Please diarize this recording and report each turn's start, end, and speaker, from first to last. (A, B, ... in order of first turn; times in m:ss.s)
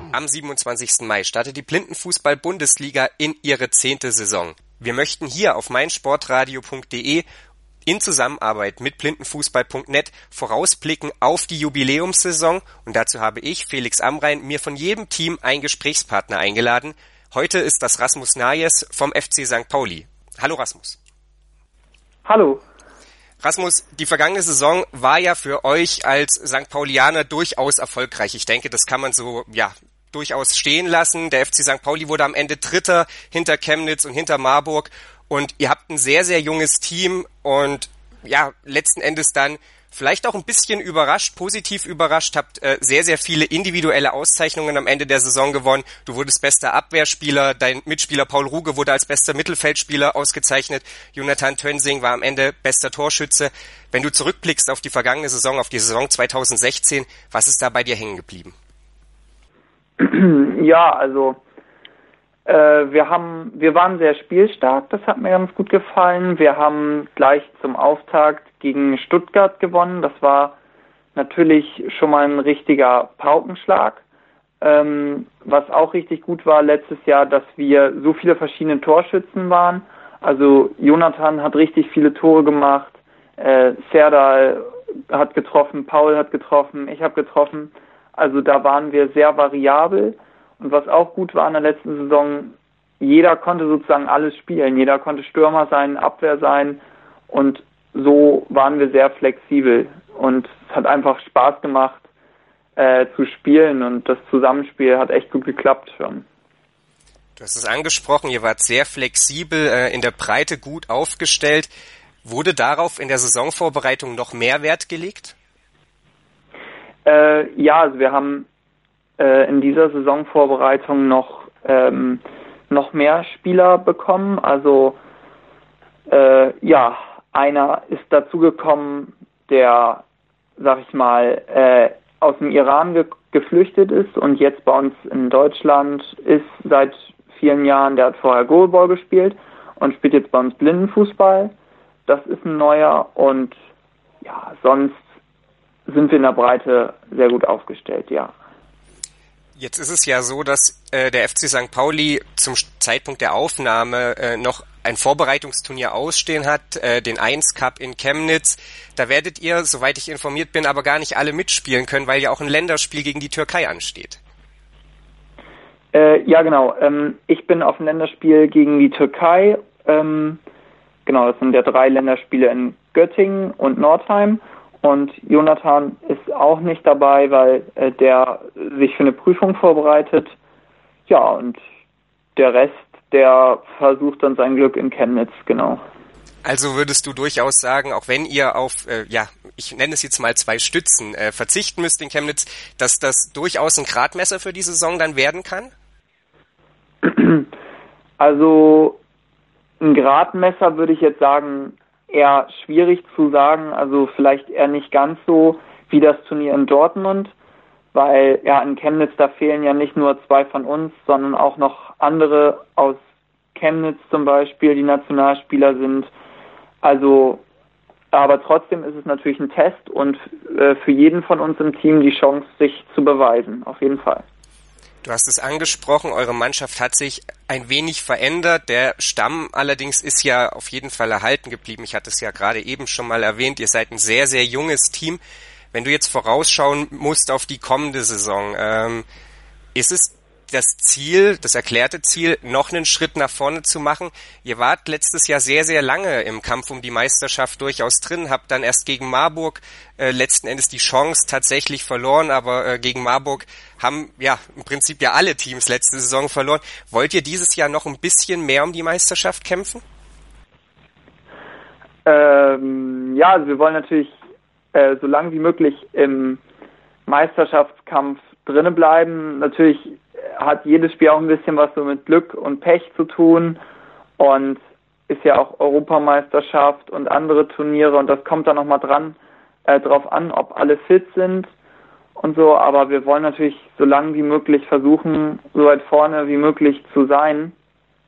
0:00.1-0:07.2 A
0:07.9-0:21.0 A
0:22.2-0:22.6 B
0:23.4-0:58.5 A
1:00.0-1:01.4 B
1:02.4-1:10.6 B
1:11.1-1:14.0 B
1:14.6-1:42.0 B
1:42.8-1:46.2 B
1:47.4-1:51.7 A
1:52.2-1:55.3 A
1:57.0-1:58.4 B
1:59.2-2:05.0 B
2:06.1-2:10.0 B
2:10.6-2:21.5 B
2:22.1-2:23.6 B
2:24.2-2:25.0 B
2:25.9-2:28.3 B
2:29.6-2:44.2 A
2:45.9-2:50.4 B
2:51.1-3:00.4 B
3:01.1-3:01.6 B
3:02.4-3:05.8 B
3:06.4-3:15.7 A
3:17.0-3:17.5 B
3:18.2-3:19.0 B
3:19.8-3:27.3 B
3:27.9-3:33.0 B
3:33.6-3:36.1 B
3:36.8-3:37.4 B
3:38.1-3:44.2 B
3:45.0-3:55.2 A
3:55.7-3:59.0 A
3:59.8-4:19.8 A
4:22.0-4:24.2 B
4:24.7-4:26.4 B
4:27.1-4:33.6 B
4:34.2-4:41.5 B
4:42.2-4:47.5 B